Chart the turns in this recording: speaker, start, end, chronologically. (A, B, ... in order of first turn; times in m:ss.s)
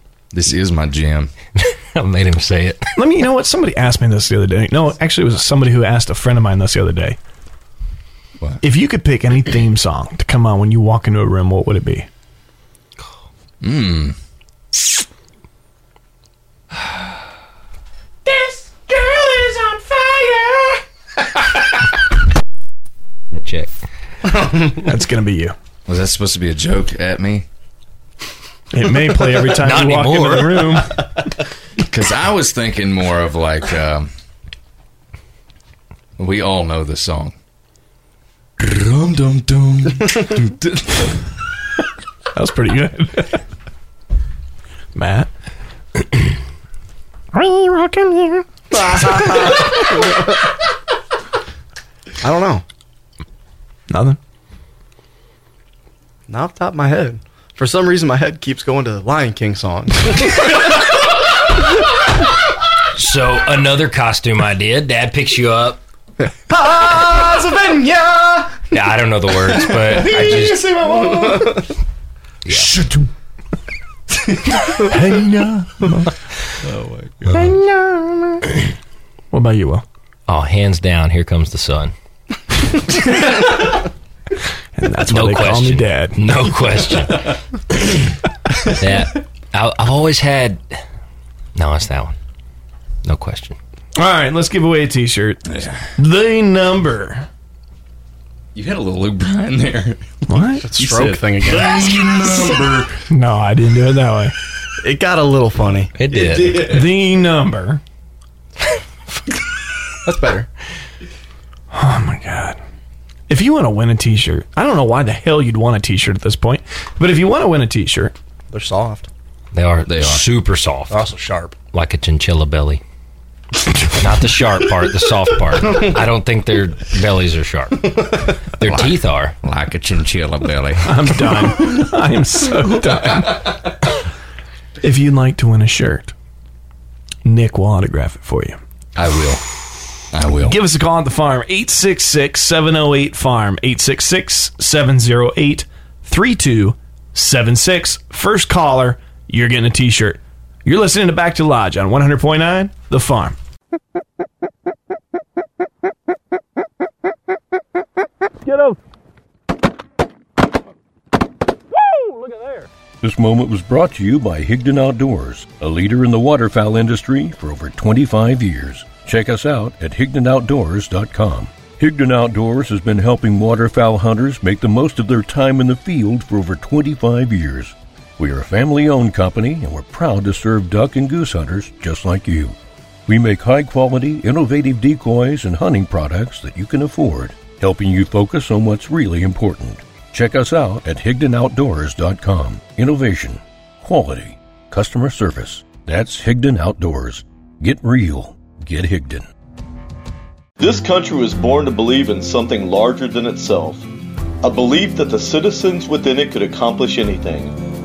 0:00.3-0:01.3 A
0:01.6-0:02.9 B
0:02.9-0:07.2 C
0:08.6-0:12.1 C
0:13.6-0:14.2 A
0:18.2-0:20.8 B
0:23.3-0:23.7 B
0:24.3-0:24.8 D
0:24.8-0:25.5 C
0:25.9-0:27.4 A
0:28.7-0:31.0 C
0:29.4-0:30.9 B
0:31.8-0:34.1 A
0:36.2-0:37.3 A
0:38.6-0:41.1 A
0:42.3-0:43.4 C
0:44.9-0:45.3 C
0:47.3-0:48.4 C
0:48.7-0:50.3 D
0:52.2-0:52.6 D
0:53.9-0:54.2 C
0:56.3-1:00.8 D
1:02.9-1:05.8 B
1:06.5-1:08.6 D
1:08.7-1:10.7 B
1:09.7-1:11.6 D
1:10.8-1:11.5 C
1:12.4-1:12.7 B
1:14.8-1:16.1 C
1:16.8-1:17.1 D
1:17.3-1:18.4 C
1:19.3-1:19.8 C
1:20.3-1:21.9 B
1:24.8-1:26.3 C
1:25.1-1:28.1 B
1:28.8-1:30.8 B
1:31.5-1:32.2 B
1:33.0-1:33.6 B
1:34.0-1:37.3 C
1:35.5-1:35.8 A
1:38.5-1:40.2 A
1:40.3-1:40.6 C
1:40.6-1:42.1 D
1:40.8-1:43.0 A
1:43.1-1:44.3 C
1:44.8-1:46.8 D
1:46.0-1:46.8 B
1:46.6-1:47.8 C
1:50.0-1:50.5 D
1:51.7-1:52.6 C
1:53.3-1:58.1 C
1:58.5-1:59.1 D
1:59.5-2:01.1 B
1:59.8-2:00.3 A
2:00.9-2:01.5 D
2:01.7-2:02.8 B
2:04.0-2:09.3 B
2:08.6-2:11.3 A
2:10.8-2:13.6 C
2:14.8-2:16.1 C
2:17.2-2:18.6 C
2:18.9-2:19.4 A
2:20.1-2:20.6 A
2:20.4-2:33.4 C
2:43.0-3:19.3 E
3:20.6-3:23.9 F
3:24.4-3:27.6 F